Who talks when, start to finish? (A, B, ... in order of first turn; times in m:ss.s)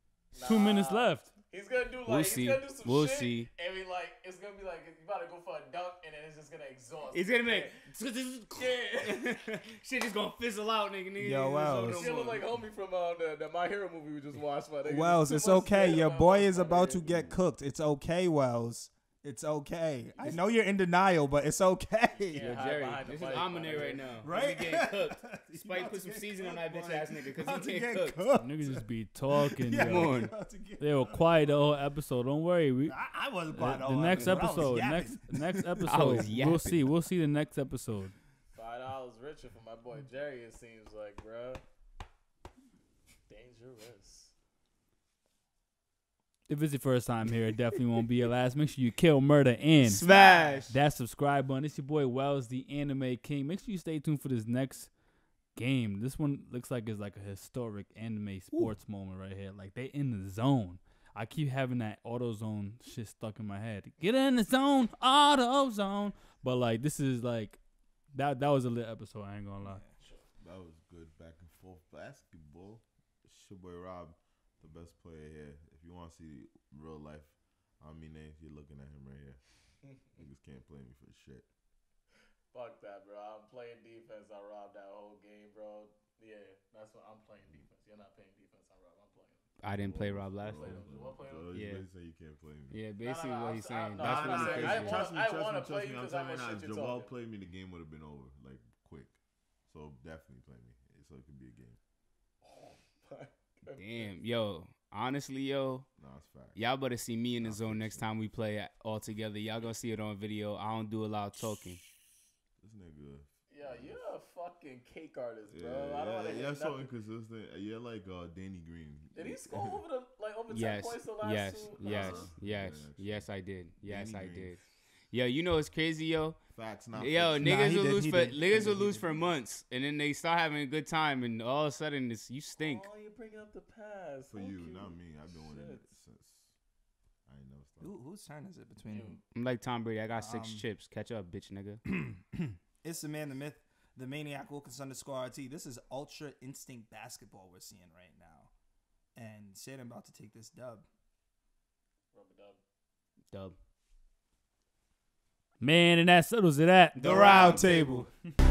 0:00.3-0:07.7 A
0:00.4-0:01.3 B
0:02.0-0:03.5 C
0:07.1-0:12.5 C
0:11.2-0:12.1 D
0:11.9-0:17.1 A
0:14.8-0:22.7 D
0:22.2-0:24.1 A
0:22.3-0:28.2 C
0:24.2-0:31.5 D
0:28.3-0:32.9 B
0:29.8-0:30.3 C
0:32.9-0:35.9 D
0:33.5-0:38.1 B
0:34.2-0:34.5 C
0:35.9-0:36.8 C
0:38.5-0:41.6 A
0:43.3-0:44.3 A
0:46.5-0:54.9 B
0:49.8-0:50.8 C
0:55.5-1:07.6 B
1:08.1-1:09.8 B
1:09.6-1:09.9 D
1:10.4-1:21.5 E
1:22.5-1:29.4 A
1:29.6-1:30.8 C
1:29.6-1:32.9 E
1:30.5-1:31.5 A
1:31.5-1:31.8 C
1:32.7-1:35.0 C
1:33.0-1:37.1 A
1:34.0-1:41.8 E
1:42.4-1:44.1 A
1:43.7-1:45.8 C
1:46.0-1:46.6 E
1:46.5-1:51.8 C
1:47.4-1:48.2 E
1:52.6-1:54.1 E
1:53.5-1:56.9 A
1:55.4-1:59.8 E
1:59.1-2:02.3 A
2:00.5-2:06.4 C
2:01.6-2:04.6 E
2:06.5-2:07.6 E
2:06.9-2:12.9 C
2:07.4-2:09.0 D
2:08.4-2:08.8 E
2:12.6-2:15.8 A
2:14.3-2:16.5 E
2:17.3-2:17.9 E
2:17.8-2:19.2 D
2:18.8-2:19.2 A
2:19.3-2:21.8 C
2:20.2-2:20.6 D
2:21.9-2:28.5 D
2:29.2-2:30.8 D
2:32.1-2:32.6 A
2:33.3-2:33.6 C
2:35.6-2:37.0 B
2:36.9-2:38.0 C
2:37.0-2:38.1 D